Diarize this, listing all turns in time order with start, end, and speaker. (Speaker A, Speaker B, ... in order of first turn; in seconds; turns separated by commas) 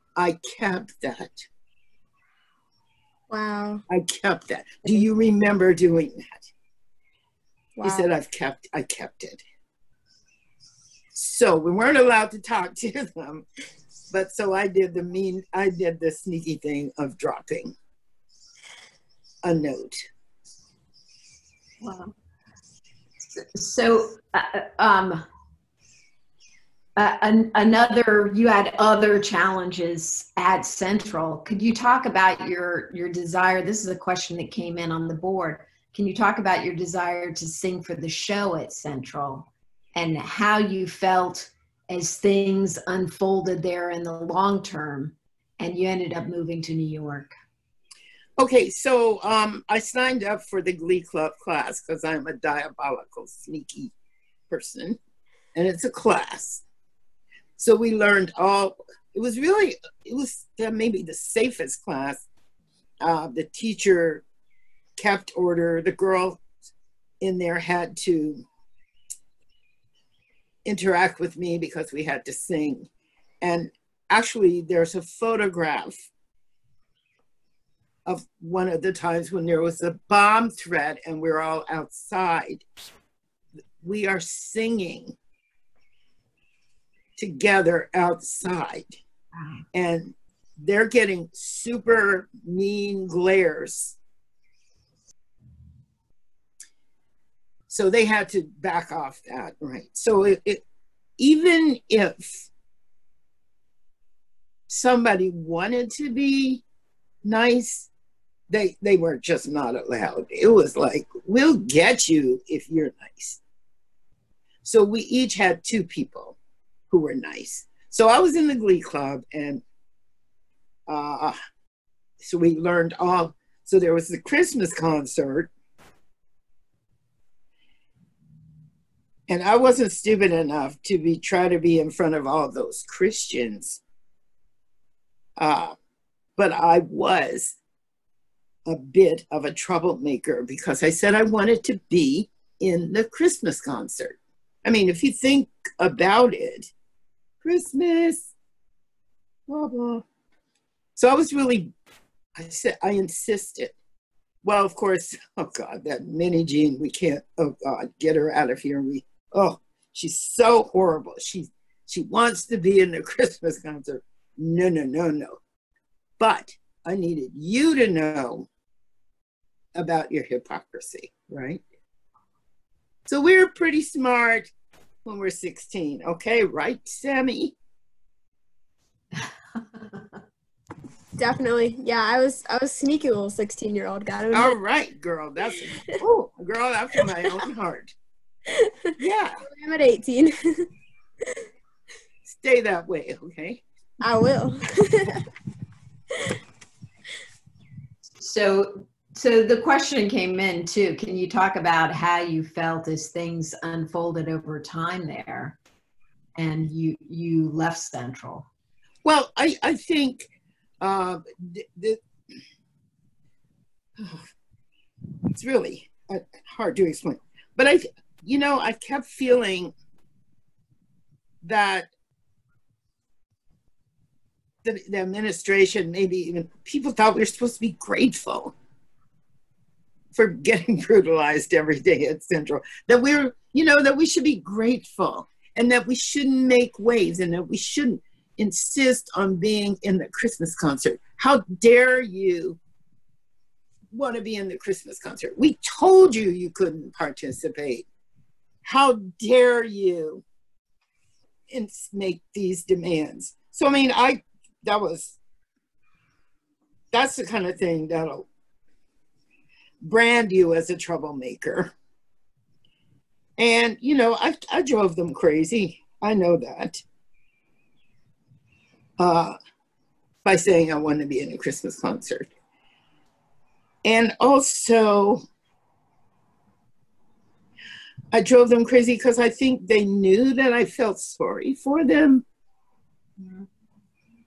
Speaker A: 0.1-1.4, Speaker B: 3.3-3.8, Speaker A: 3.9-6.5, Speaker B: 7.8-8.0, Speaker A: 7.8-9.4, Speaker A: 11.1-13.4, Speaker A: 14.1-17.7, Speaker A: 19.4-20.0, Speaker C: 21.8-22.1, Speaker C: 23.4-25.2, Speaker C: 26.9-47.3, Speaker A: 48.4-53.9, Speaker A: 54.5-55.0, Speaker A: 55.5-56.6, Speaker A: 57.6-62.2, Speaker A: 63.0-64.2, Speaker A: 65.0-66.4, Speaker A: 67.2-68.4, Speaker A: 70.6-72.9, Speaker A: 73.4-76.1, Speaker A: 78.0-82.6, Speaker A: 83.8-85.1, Speaker A: 87.2-89.0, Speaker A: 89.7-94.0, Speaker A: 97.7-100.6, Speaker A: 101.2-102.5, Speaker A: 104.7-106.6, Speaker A: 107.2-107.9, Speaker A: 108.5-113.4, Speaker A: 114.6-116.4, Speaker A: 116.9-119.6, Speaker A: 120.9-121.3, Speaker A: 122.2-125.5, Speaker A: 129.3-133.8, Speaker A: 135.4-135.8, Speaker A: 136.3-137.6, Speaker A: 138.7-146.7, Speaker A: 147.4-148.3, Speaker A: 149.5-150.0, Speaker A: 150.9-151.7, Speaker A: 152.3-153.7, Speaker A: 154.4-165.4, Speaker A: 166.2-168.5, Speaker A: 169.7-171.6, Speaker A: 173.1-174.5, Speaker A: 175.0-177.6, Speaker B: 181.2-184.6, Speaker A: 184.3-187.9, Speaker B: 188.5-190.7, Speaker A: 189.0-189.4, Speaker A: 192.2-193.6, Speaker B: 194.0-195.2, Speaker C: 198.2-205.6, Speaker C: 206.3-208.5, Speaker A: 209.0-212.0, Speaker A: 215.3-219.7, Speaker A: 221.4-221.9, Speaker A: 224.6-228.5, Speaker A: 230.1-242.6, Speaker A: 243.9-247.9, Speaker A: 248.6-250.2, Speaker A: 251.5-255.2, Speaker A: 256.9-258.3, Speaker A: 259.8-261.7, Speaker A: 263.4-266.8, Speaker A: 269.0-269.4, Speaker A: 270.2-272.3, Speaker A: 273.8-275.2, Speaker A: 278.1-282.2